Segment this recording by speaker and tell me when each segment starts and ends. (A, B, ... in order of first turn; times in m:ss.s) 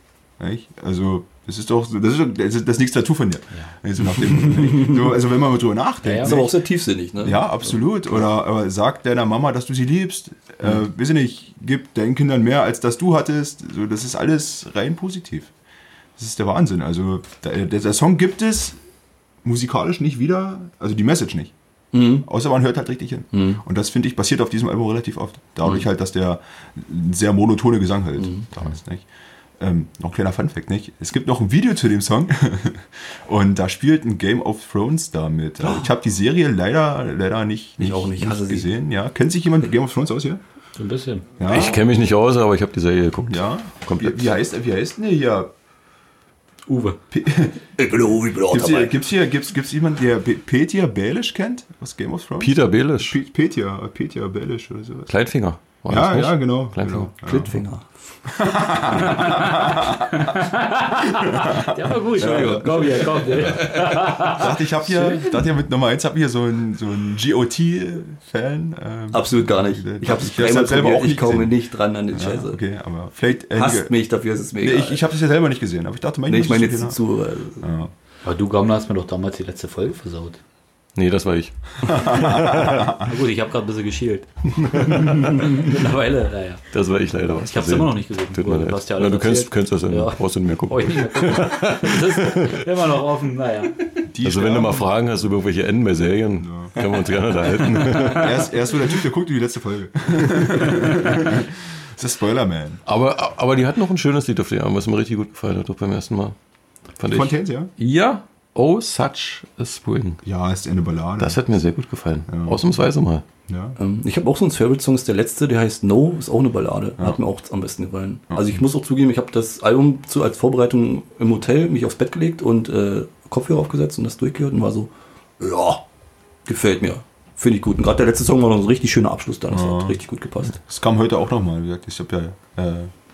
0:00.4-0:06.5 A
0:06.0-0:06.3 B
0:06.2-0:07.8 C
0:07.2-0:15.5 A
0:16.2-0:18.8 A
0:19.4-0:21.5 A
0:21.9-0:22.3 C
0:22.2-0:29.0 A
0:23.3-0:23.6 C
0:28.2-0:28.4 C
0:29.6-0:40.4 A
0:35.6-0:35.9 C
0:37.8-0:38.7 C
0:40.8-0:41.3 B
0:41.4-0:41.8 A
0:41.5-0:44.3 D
0:43.3-0:45.5 A
0:46.7-0:47.0 B
0:47.1-0:47.6 A
0:47.8-0:48.9 C
0:48.5-0:55.1 A
0:52.4-0:53.2 D
0:55.1-0:57.1 D
0:55.9-0:57.5 A
0:57.2-0:57.9 C
0:58.3-1:00.2 A
0:59.1-1:05.2 B
1:01.2-1:11.6 A
1:02.2-1:03.2 C
1:09.1-1:12.6 C
1:12.1-1:13.9 A
1:13.5-1:15.0 C
1:14.6-1:17.0 A
1:16.3-1:17.6 C
1:17.6-1:17.9 A
1:18.2-1:20.4 B
1:21.0-1:22.9 D
1:21.9-1:23.0 A
1:22.9-1:26.6 B
1:24.8-1:25.2 D
1:26.7-1:32.6 D
1:27.3-1:33.9 B
1:34.1-1:34.9 A
1:34.2-1:38.4 D
1:36.4-1:36.8 A
1:37.8-1:38.1 B
1:37.9-1:42.8 A
1:42.9-1:46.3 D
1:47.0-1:50.2 D
1:47.1-1:47.7 A
1:50.2-1:51.4 A
1:51.2-1:53.2 D
1:52.3-1:52.6 A
1:53.5-1:53.8 A
1:53.8-2:05.8 C
2:06.4-2:10.6 C
2:09.5-2:10.0 A
2:10.6-2:12.9 A